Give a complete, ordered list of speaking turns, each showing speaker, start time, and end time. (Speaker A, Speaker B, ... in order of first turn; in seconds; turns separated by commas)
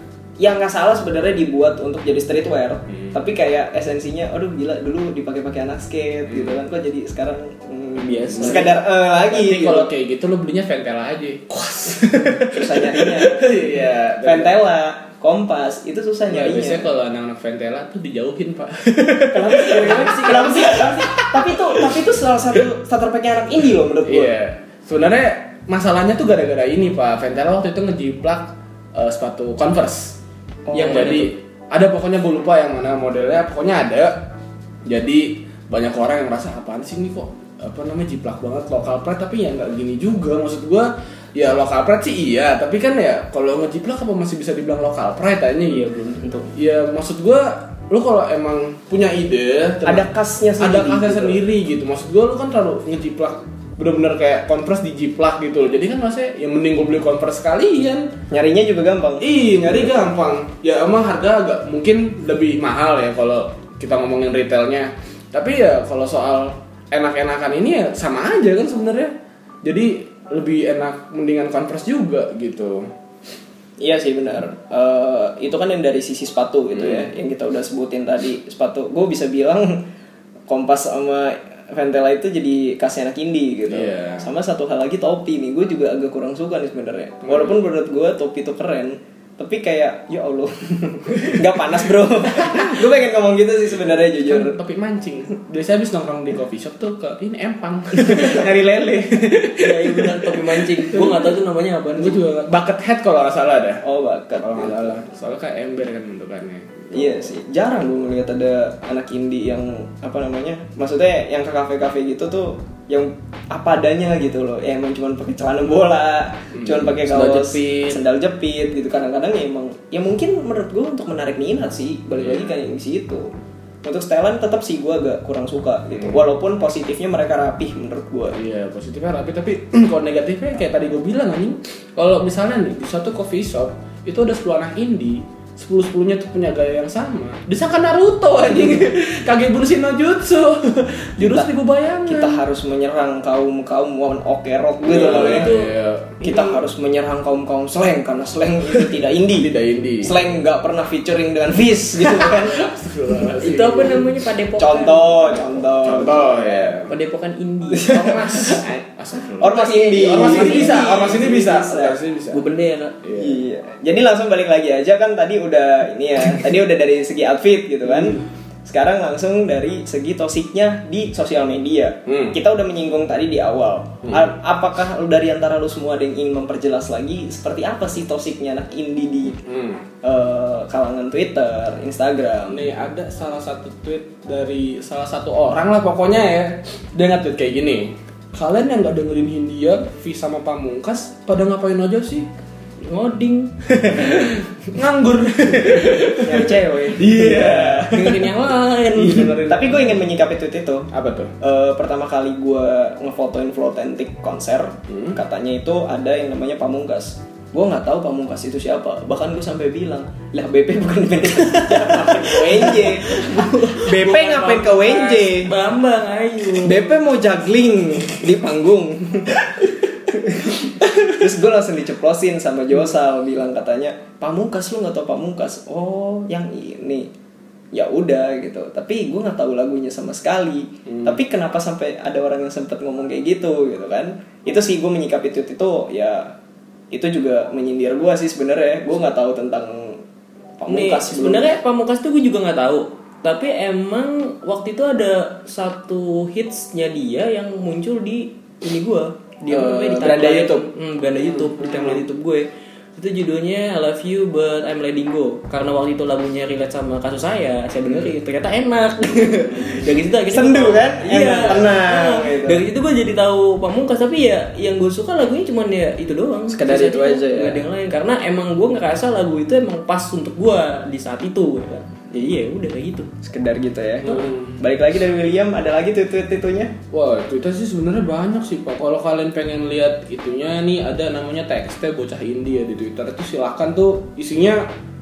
Speaker A: 0.4-9.9, Speaker B: 6.3-6.6, Speaker C: 8.1-8.7, Speaker B: 8.1-14.6, Speaker A: 12.5-13.7, Speaker A: 14.2-16.9, Speaker B: 16.3-22.0, Speaker A: 19.3-24.3, Speaker B: 24.1-30.2, Speaker A: 30.7-31.2, Speaker C: 30.7-31.3, Speaker B: 30.8-34.3, Speaker B: 34.9-45.9, Speaker C: 45.6-46.5, Speaker B: 46.5-58.1, Speaker A: 49.8-51.4, Speaker A: 58.3-59.3, Speaker B: 59.2-72.9, Speaker A: 73.8-79.8, Speaker B: 76.7-77.1, Speaker A: 80.5-94.5, Speaker B: 83.7-84.2, Speaker B: 87.2-87.6, Speaker B: 94.2-101.4, Speaker C: 99.6-102.2, Speaker B: 102.0-103.8, Speaker A: 103.8-104.9, Speaker B: 104.4-107.3, Speaker A: 106.9-123.3, Speaker B: 116.5-117.9, Speaker C: 117.2-117.5, Speaker B: 122.2-122.6, Speaker A: 123.8-128.4, Speaker B: 126.0-126.2, Speaker B: 128.3-142.4, Speaker A: 141.2-141.5, Speaker A: 142.1-145.5, Speaker B: 144.8-146.2, Speaker C: 145.0-145.8, Speaker A: 146.2-152.7, Speaker B: 149.3-150.2, Speaker B: 152.0-154.1, Speaker C: 153.4-155.2, Speaker A: 154.6-156.7, Speaker B: 155.3-156.9, Speaker C: 156.9-158.6, Speaker A: 157.7-158.6, Speaker B: 157.9-162.4, Speaker A: 159.4-162.0, Speaker C: 159.7-161.6, Speaker C: 162.3-163.0, Speaker B: 163.0-163.4, Speaker A: 163.1-179.4, Speaker B: 172.1-172.4, Speaker B: 174.0-174.3, Speaker B: 179.4-179.8, Speaker A: 180.0-182.7, Speaker B: 182.5-192.3, Speaker C: 192.8-194.3, Speaker B: 193.7-198.3, Speaker A: 196.2-197.8, Speaker C: 197.2-199.5, Speaker B: 198.9-200.0, Speaker A: 199.5-200.9, Speaker B: 200.9-201.3, Speaker A: 201.4-215.5, Speaker B: 204.9-205.2, Speaker C: 212.5-217.0, Speaker A: 216.6-227.1, Speaker A: 227.7-236.3, Speaker B: 230.9-231.2, Speaker A: 236.9-240.0, Speaker A: 240.6-241.6, Speaker C: 240.7-273.1, Speaker B: 249.5-250.6, Speaker A: 249.6-250.5, Speaker B: 251.4-252.0, Speaker B: 257.9-258.1, Speaker A: 260.3-262.6, Speaker A: 266.5-267.6, Speaker A: 273.2-276.7, Speaker B: 274.1-274.6, Speaker B: 276.9-284.7